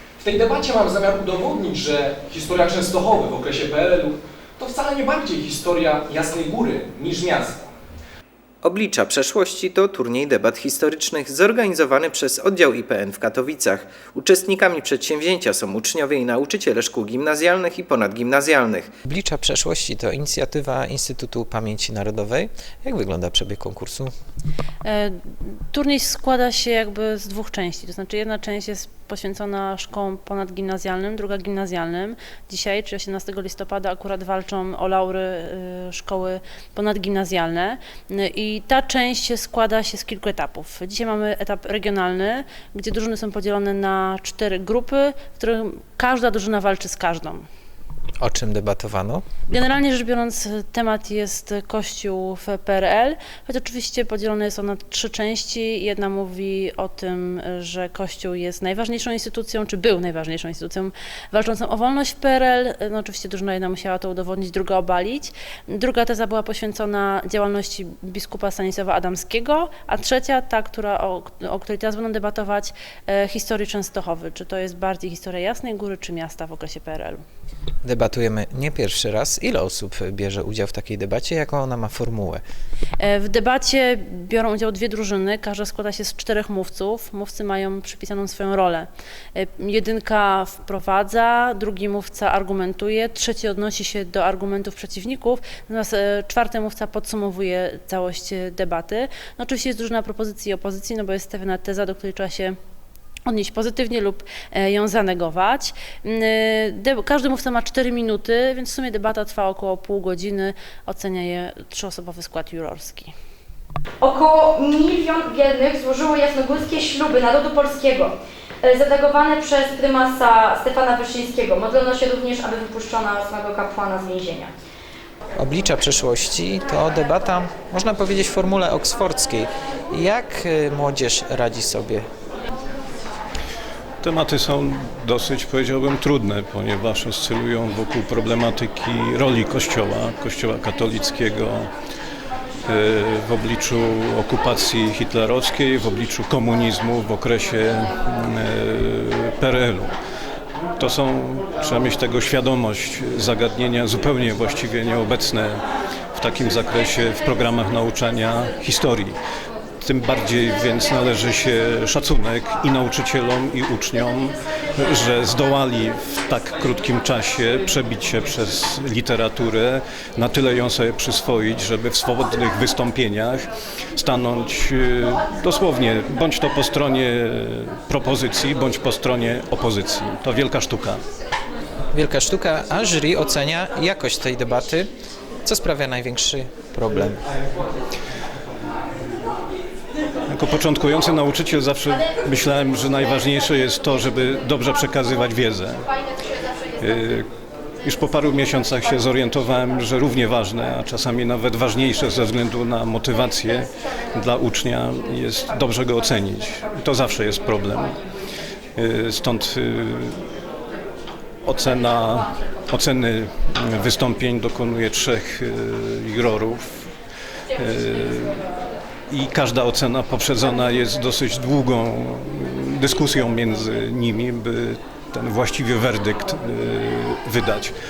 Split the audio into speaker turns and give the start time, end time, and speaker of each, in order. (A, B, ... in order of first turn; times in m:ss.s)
0:00.2-0:07.7 A
0:08.6-0:18.9 B
0:19.1-0:24.1 C
0:24.8-0:47.5 D
0:48.2-0:49.2 C
0:49.5-1:17.2 D
1:17.8-1:22.4 C
1:23.0-1:42.6 D
1:43.3-1:53.1 D
1:54.0-2:04.5 E
2:05.4-2:12.1 C
2:14.0-2:21.7 F
2:22.7-2:29.9 F
2:30.8-2:35.6 F
2:36.2-2:39.2 F
2:39.8-3:01.0 F
3:01.9-3:04.9 C
3:05.4-3:07.2 C
3:10.3-3:15.9 F
3:16.8-3:17.3 F
3:17.8-3:28.0 F
3:28.8-3:30.2 F
3:31.4-3:36.9 F
3:37.6-3:38.4 F
3:39.1-3:47.8 F